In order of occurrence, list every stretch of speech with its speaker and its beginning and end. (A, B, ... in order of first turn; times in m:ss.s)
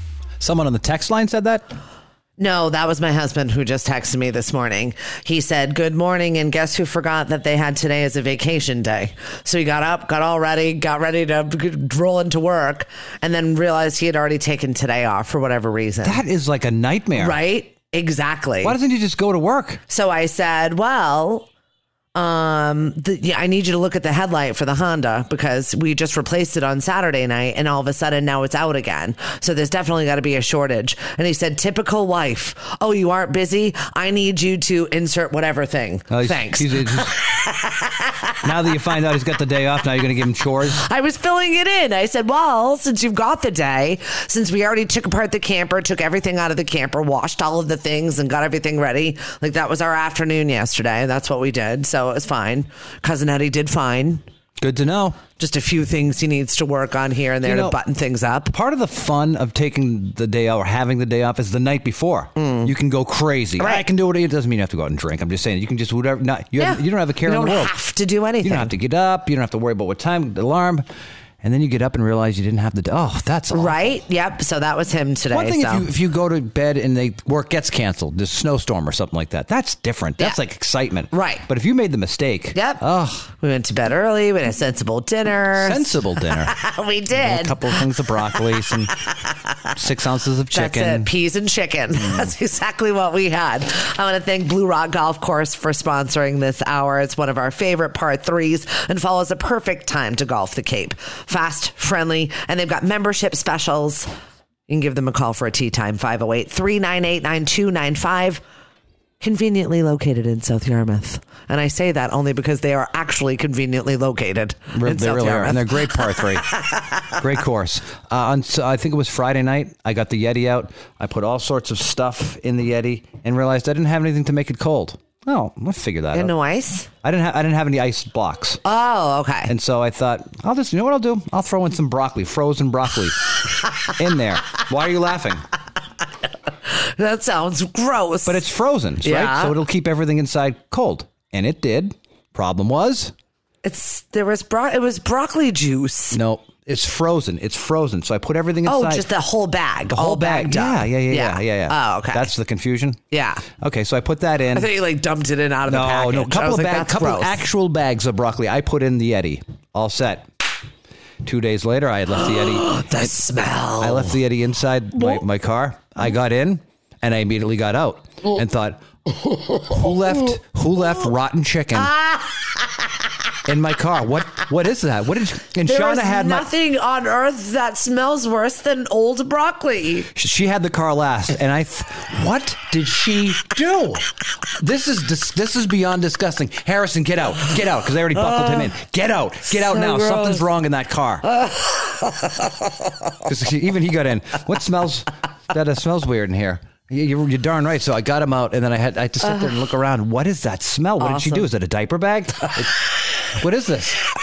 0:00.4-0:01.6 A
0:02.4-0:16.2 B
0:16.0-0:17.4 A
0:17.1-0:18.8 B
0:18.6-0:19.8 A
0:19.9-0:21.5 B
0:22.1-0:38.5 B
0:36.1-0:37.2 A
0:38.4-0:40.8 A
0:40.7-0:54.2 B
0:54.6-0:55.2 A
0:55.3-0:58.5 B
0:57.4-0:57.8 A
0:58.5-1:07.8 A
1:02.4-1:02.7 B
1:03.6-1:03.8 B
1:06.6-1:08.7 B
1:08.4-1:10.8 A
1:11.4-1:14.0 A
1:13.5-1:15.9 B
1:15.3-1:23.3 A
1:21.1-1:21.4 B
1:22.5-1:22.8 B
1:23.4-1:29.8 B
1:25.6-1:26.6 A
1:27.1-1:28.9 A
1:29.8-1:31.1 A
1:30.5-1:44.1 B
1:44.7-1:48.4 B
1:49.2-1:56.9 B
1:54.7-1:56.5 A
1:57.1-2:06.3 A
2:06.1-2:06.9 B
2:07.0-2:08.6 A
2:08.6-2:09.5 B
2:09.5-2:13.3 A
2:14.0-2:15.4 A
2:16.7-2:18.4 B
2:18.2-2:23.1 A
2:19.0-2:19.6 B
2:23.6-2:26.2 B
2:26.1-2:29.1 A
2:28.6-2:32.3 B
2:29.9-2:33.0 A
2:33.1-2:33.5 B
2:33.6-2:34.7 A
2:34.5-2:37.4 B
2:35.7-2:40.2 A
2:41.2-2:42.8 A
2:42.2-2:44.2 B
2:43.8-2:48.8 A
2:49.5-2:51.9 A
2:51.7-2:52.9 B
2:53.5-2:56.5 A
2:55.6-3:00.1 B
3:00.1-3:11.3 A
3:09.8-3:10.3 B
3:11.4-3:12.5 B
3:13.2-3:24.0 A
3:21.0-3:21.5 B